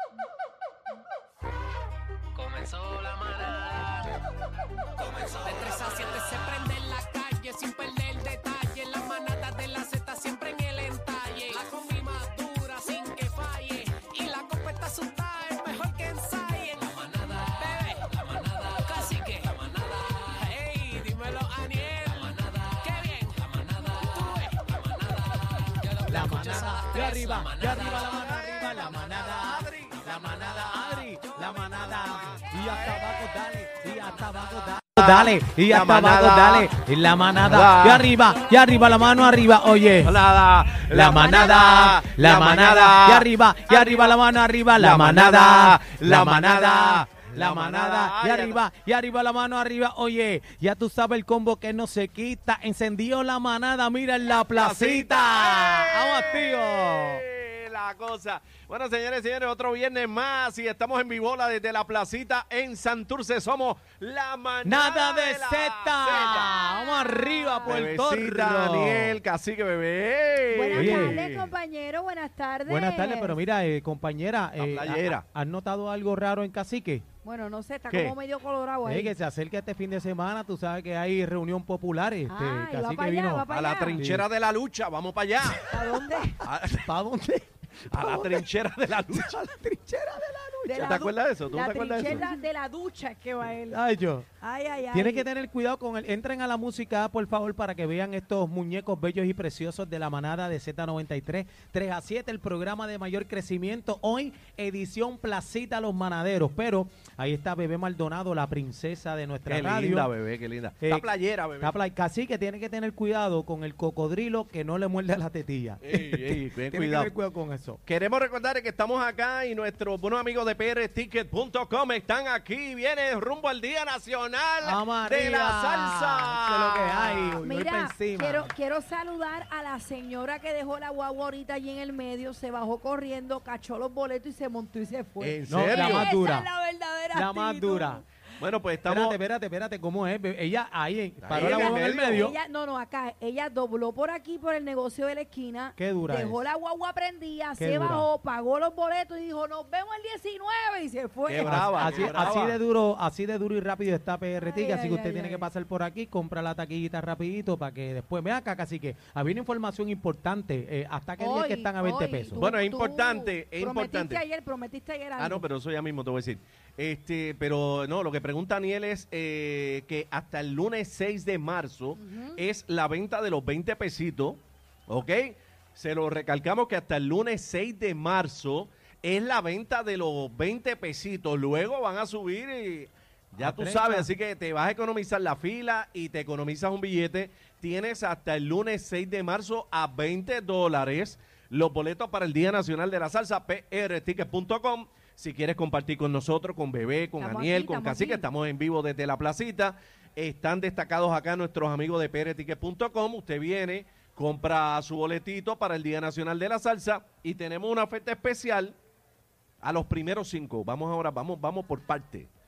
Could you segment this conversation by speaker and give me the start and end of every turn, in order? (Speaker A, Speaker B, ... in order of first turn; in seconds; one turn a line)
Speaker A: 2.3-4.2
Speaker A: 5.0-28.1
Speaker B: 26.1-40.2
Speaker C: 27.9-30.1
Speaker C: 31.5-33.1
Speaker C: 35.0-36.7
Speaker C: 37.4-38.1
Speaker C: 40.0-44.2
Speaker B: 40.8-57.2
Speaker C: 44.7-48.6
Speaker C: 54.5-66.5
Speaker B: 64.6-69.2
Speaker D: 66.1-67.7
Speaker C: 67.6-71.5
Speaker D: 70.5-73.4
Speaker B: 70.7-71.2
Speaker B: 72.7-77.0
Speaker C: 74.6-75.2
Speaker D: 77.2-79.1
Speaker C: 77.9-78.1
Speaker B: 78.8-83.5
Speaker D: 82.3-84.0
Speaker C: 83.5-85.7
Speaker B: 84.0-84.3
Speaker D: 85.7-86.4
Speaker B: 85.7-91.0
Speaker C: 86.4-86.9
Speaker C: 87.9-89.4
Speaker D: 90.7-93.8
Speaker C: 90.8-92.2
Speaker B: 92.0-92.4
Speaker B: 93.7-94.3
Speaker D: 94.4-95.3
Speaker B: 94.9-110.1
Speaker C: 109.5-111.7
Speaker B: 110.8-111.1
Speaker B: 111.6-117.8
Speaker C: 115.8-117.1
Speaker C: 117.8-127.4
Speaker B: 124.6-128.5
Speaker D: 127.4-138.0
Speaker C: 135.2-136.1
Speaker B: 135.5-136.5
Speaker B: 137.1-138.0
Speaker C: 138.4-139.2
Speaker B: 138.8-142.4
Speaker C: 141.2-142.3
Speaker D: 141.3-152.2
Speaker B: 145.8-146.4
Speaker B: 147.6-148.1
Speaker C: 151.2-152.6
Speaker B: 151.4-162.4
Speaker D: 154.4-155.5
Speaker D: 161.2-165.4
Speaker C: 162.3-164.2
Speaker C: 165.2-208.8
Speaker D: 171.9-172.4
Speaker B: 183.4-184.1
Speaker D: 197.2-198.2
Speaker C: 209.6-212.3